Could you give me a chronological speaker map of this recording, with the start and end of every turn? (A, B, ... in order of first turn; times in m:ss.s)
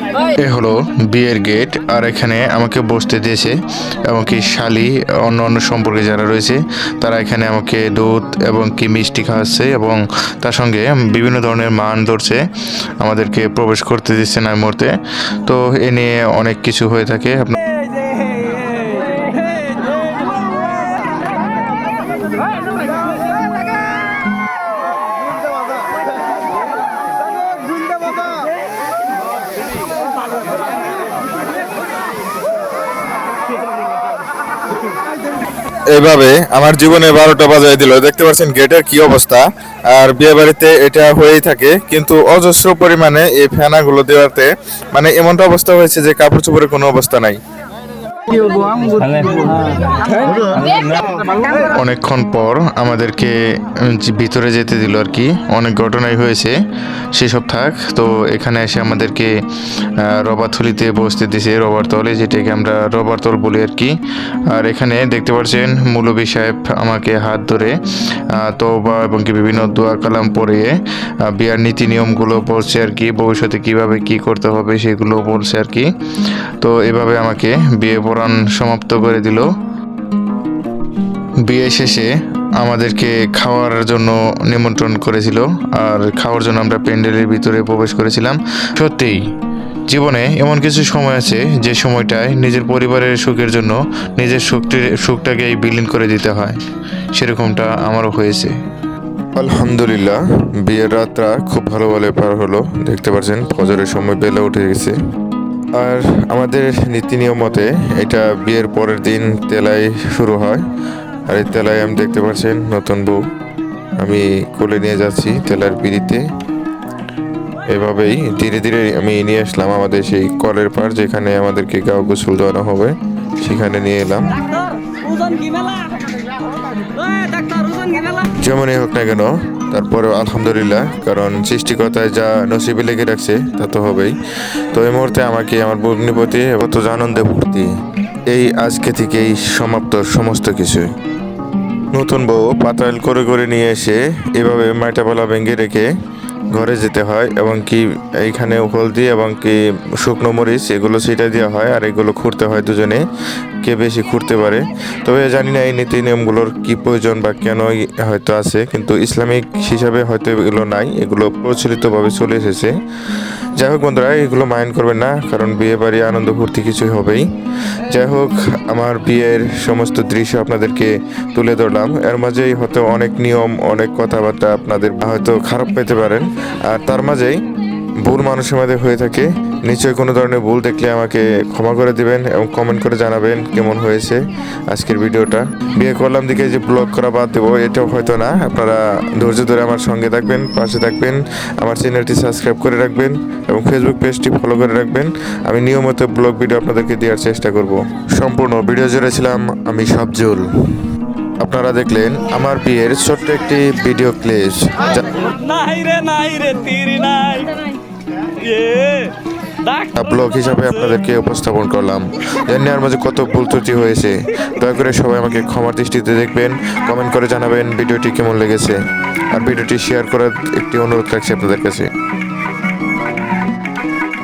0:00.2-0:12.4 A
0:13.0-0:17.6 A
0:18.9-0:19.3 B
0:28.0-0:28.4 B
0:35.9-0:47.4 A
0:48.3-0:51.7 B
0:51.6-0:56.6 A
0:57.1-1:04.0 A
1:04.5-1:15.9 A
1:16.6-1:19.5 A
1:21.4-1:29.3 A
1:29.9-1:36.6 A
1:37.1-1:38.6 A
1:39.4-1:45.0 A
1:45.8-1:50.6 A
1:51.3-1:53.2 A
1:54.0-1:56.3 A
1:57.7-2:04.4 A
2:04.8-2:06.0 B
2:07.0-2:08.2 B
2:08.3-2:17.7 A
2:18.3-2:20.9 A
2:21.9-2:25.9 A
2:26.5-2:33.1 A
2:33.6-2:42.8 A
2:43.6-2:47.3 A
2:47.9-2:57.4 A
2:58.0-3:20.5 A
3:21.4-3:25.3 A
3:25.4-3:27.7 B
3:28.4-3:29.1 B
3:29.9-3:41.9 A